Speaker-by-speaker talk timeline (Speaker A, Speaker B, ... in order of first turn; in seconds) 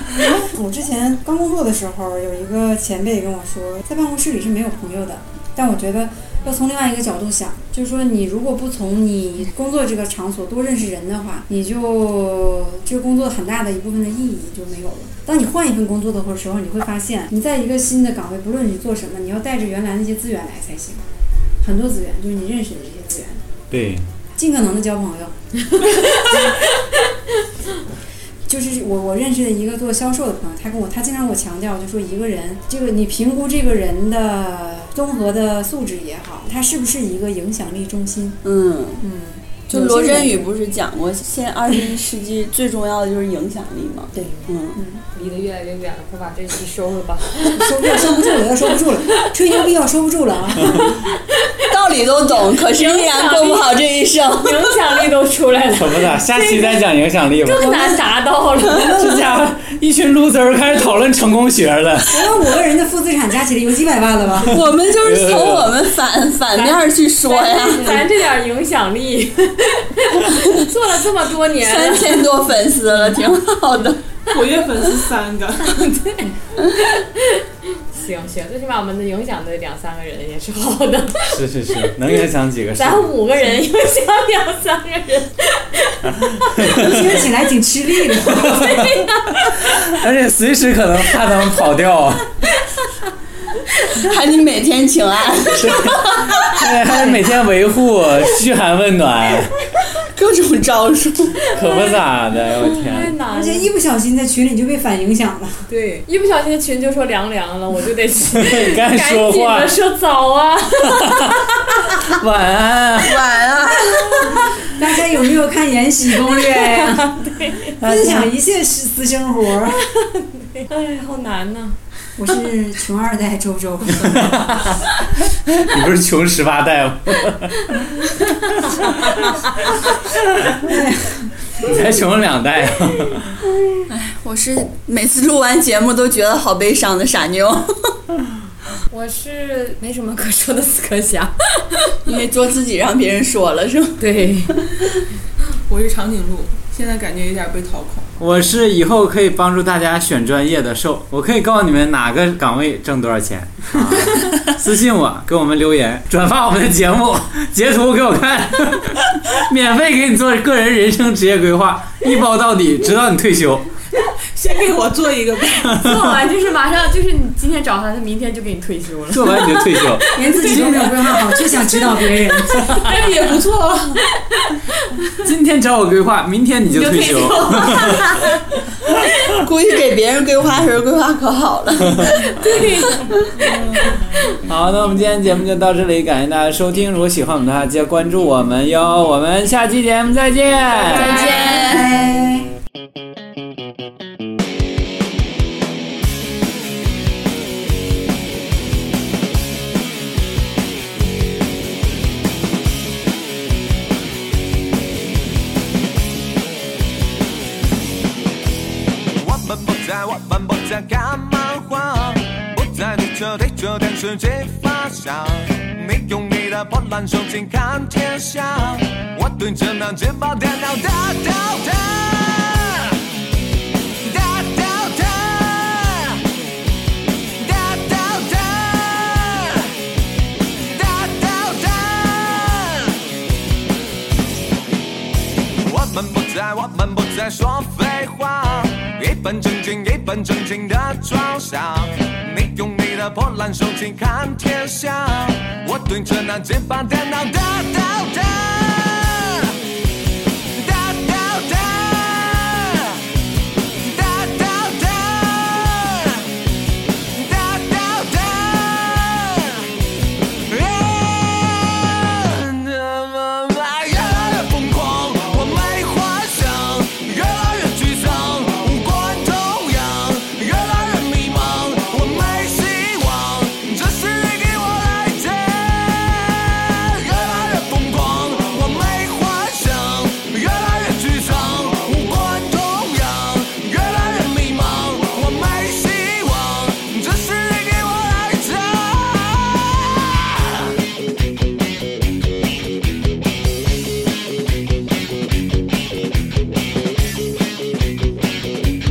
Speaker A: 0.3-21.0, 21.6-23.4, 24.4-25.3, 26.0-26.4, 28.5-38.4, 39.0-40.5, 44.8-45.0, 47.4-51.0, 57.6-59.3, 62.1-64.6, 67.8-68.0, 86.6-88.6, 103.3-105.7, 114.7-119.8, 122.2-124.7, 130.6-131.3, 170.1-172.7, 191.2-192.5
Speaker B: 23.7-24.1, 55.7-57.8, 58.8-62.2, 64.9-65.7, 81.3-83.1, 86.3-87.2, 88.4-89.0, 89.9-92.3, 95.5-99.6, 101.5-103.1, 108.4-109.7, 111.9-113.2, 117.8-118.3, 124.1-124.8, 125.5-127.9, 128.6-129.1, 131.6-133.3, 148.2-163.7, 165.7-166.2, 169.1-170.8, 175.2-178.0, 184.5-191.2
Speaker C: 25.7-26.7, 44.2-44.5, 45.1-48.2, 50.7-51.6, 52.6-53.8, 54.3-56.9, 57.4-59.0, 66.5-72.3, 76.9-81.9, 82.8-86.8, 88.3-89.9, 93.7-94.1, 101.6-102.0, 102.7-103.7, 105.7-111.6, 116.7-117.8, 119.9-121.8, 128.2-129.3, 138.9-142.0, 144.0-144.6, 165.8-171.8, 172.5-173.1, 174.2-175.1, 176.7-178.4, 182.1-183.1, 190.8-191.7
Speaker D: 38.4-39.0, 39.7-44.8, 51.7-55.0, 64.5-68.0, 71.6-74.0, 93.9-96.6, 100.0-101.4, 113.0-114.4, 133.9-138.0, 142.1-144.9, 179.4-182.1, 182.9-183.4, 190.8-191.9
Speaker E: 74.3-76.0, 145.7-148.2, 164.0-165.8, 172.7-174.0
Speaker F: 209.1-222.9, 224.0-226.2, 227.3-229.7, 230.6-233.0, 235.5-249.5, 250.5-253.0, 253.8-256.2, 257.1-259.7, 260.5-290.6